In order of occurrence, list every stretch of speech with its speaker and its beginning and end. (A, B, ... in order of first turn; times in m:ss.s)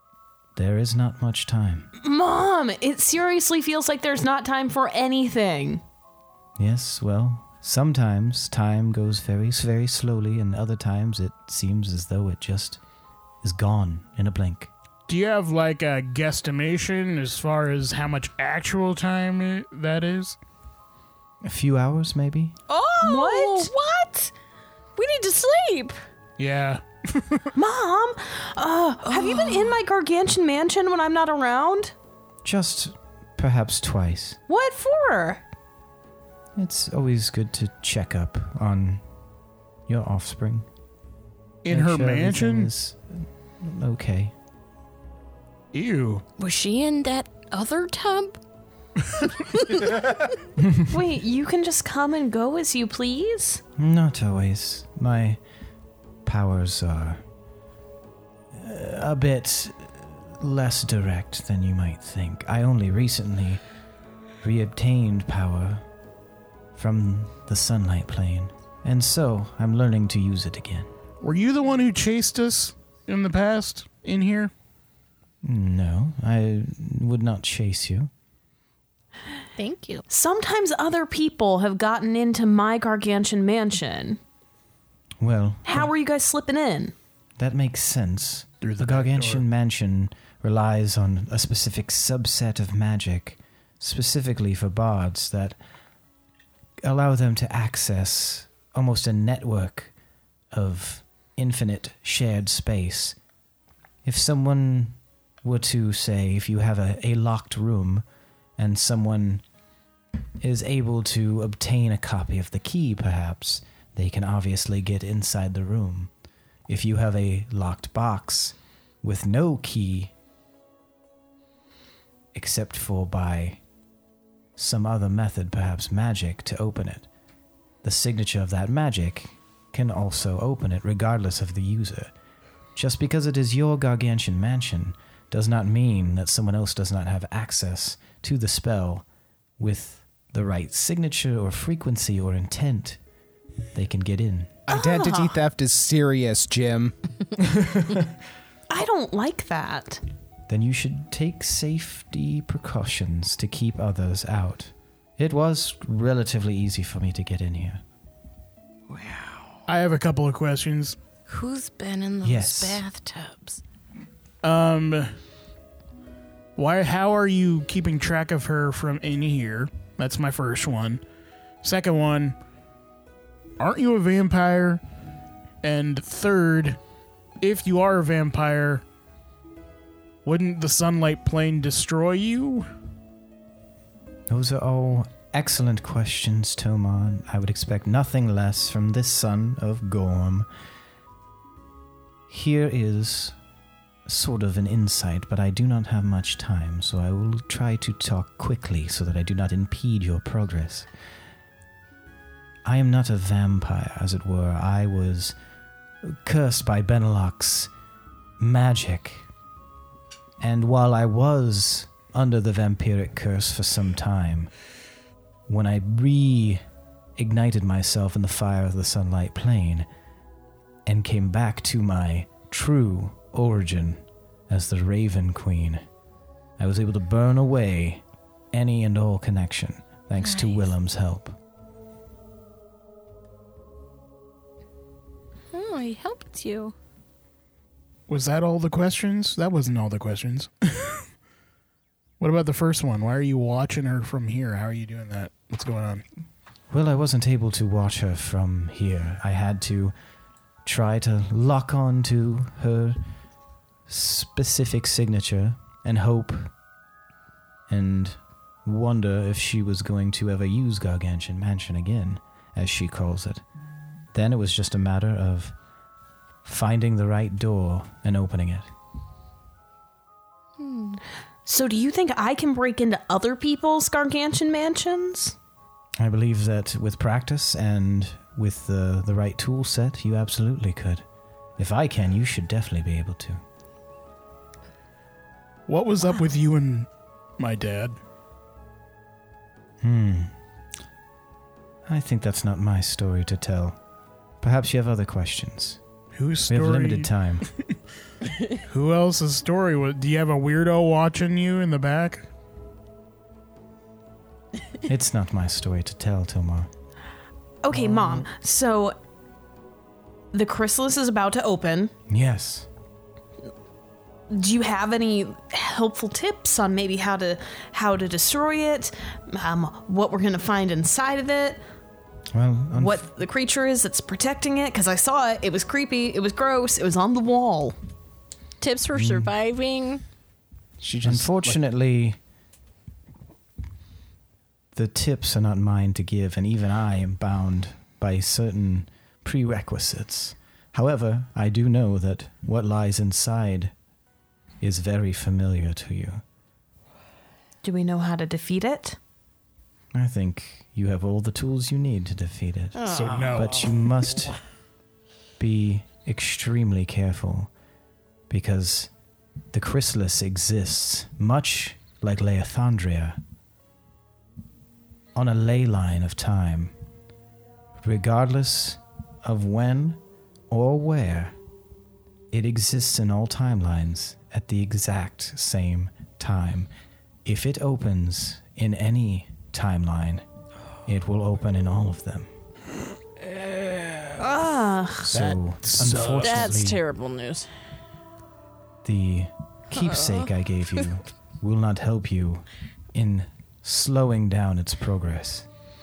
0:00.6-0:01.9 A
0:02.0-0:05.8 B
0:06.6-0:12.8 A
0:13.4-0:14.7 A
0:15.1-0:20.4 C
0:21.4-0:22.6 A
0:22.7-0:24.3 D
0:23.0-0:23.7 B
0:25.0-0:26.0 D
0:26.4-0:27.5 C
0:27.6-0:31.9 B
0:29.1-0:29.8 D
0:32.4-0:34.4 A
0:34.5-0:35.4 B
0:36.6-0:39.0 A
0:39.9-0:40.7 A
0:41.6-0:42.7 C
0:41.7-0:44.3 A
0:45.7-0:46.2 C
0:46.4-0:48.4 D
0:49.4-0:50.1 D
0:50.9-0:53.6 B
0:53.8-0:55.4 A
0:56.2-0:57.2 A
0:58.5-1:03.6 A
1:04.4-1:05.8 A
1:06.8-1:10.9 A
1:11.2-1:14.5 C
1:15.4-1:18.1 A
1:19.6-1:20.1 D
1:20.1-1:24.2 B
1:25.2-1:25.9 A
1:25.7-1:26.9 B
1:27.4-1:35.6 A
1:28.6-1:29.4 C
1:36.8-1:39.9 A
1:40.5-1:43.2 A
1:44.0-1:48.1 A
1:48.6-1:49.4 A
1:50.4-1:56.1 A
1:56.7-2:00.1 A
2:02.3-2:03.6 A
2:04.6-2:07.1 A
2:07.8-2:12.1 A
2:12.8-2:19.0 A
2:19.6-2:23.0 A
2:23.7-2:24.6 A
2:24.7-2:27.0 E
2:24.7-2:25.4 B
2:27.6-2:28.0 A
2:28.7-2:30.0 B
2:30.5-2:37.8 A
2:38.9-2:39.5 D
2:39.7-2:41.0 C
2:41.3-2:43.6 D
2:42.2-2:42.8 A
2:44.4-2:45.1 C
2:46.6-2:51.0 C
2:51.6-2:52.4 C
2:53.6-2:54.8 C
2:55.6-2:56.8 C
2:57.4-2:58.8 C
3:00.2-3:02.7 C
3:04.3-3:10.5 A
3:12.3-3:13.4 A
3:14.1-3:20.9 A
3:22.6-3:25.4 A
3:26.0-3:27.7 A
3:28.4-3:29.3 A
3:30.4-3:34.5 A
3:35.5-3:36.6 A
3:37.2-3:39.9 A
3:40.9-3:45.8 A
3:46.6-3:51.4 A
3:50.2-3:50.6 D
3:55.5-3:56.7 D
3:58.1-4:01.0 C
4:02.2-4:06.0 C
4:06.7-4:09.9 A
4:10.6-4:13.0 A
4:13.9-4:16.5 A
4:17.7-4:23.4 A
4:24.1-4:25.6 A
4:26.4-4:28.7 A
4:30.6-4:31.0 D
4:31.5-4:35.4 B
4:36.0-4:41.0 A
4:41.6-4:43.4 A
4:45.7-4:48.0 C
4:49.8-4:50.3 A
4:51.9-4:53.8 A
4:54.4-4:55.8 A
4:56.1-4:57.1 C
4:56.5-4:57.5 A
4:58.6-5:02.3 C
5:04.8-5:06.7 A
5:07.6-5:09.0 B
5:07.7-5:08.3 A
5:10.3-5:11.9 B
5:12.1-5:12.7 A
5:14.3-5:21.6 B
5:22.3-5:23.0 A
5:22.7-5:27.8 B
5:28.6-5:30.0 D
5:28.9-5:29.3 A
5:30.8-5:31.6 E
5:31.0-5:32.2 A
5:34.7-5:43.7 A
5:44.6-5:46.2 A
5:47.6-5:49.0 B
5:49.9-5:54.4 A
5:52.8-5:53.7 D
5:52.9-5:53.6 C
5:55.4-5:57.5 A
5:58.3-5:58.9 A
5:59.5-6:03.2 A
6:05.2-6:06.7 A
6:07.8-6:11.4 A
6:12.3-6:16.7 A
6:17.2-6:20.2 A
6:20.9-6:22.3 A
6:23.3-6:24.1 D
6:24.2-6:25.1 B
6:25.1-6:26.8 A
6:25.1-6:26.6 C
6:26.2-6:27.5 D
6:28.8-6:35.5 A
6:29.8-6:30.3 D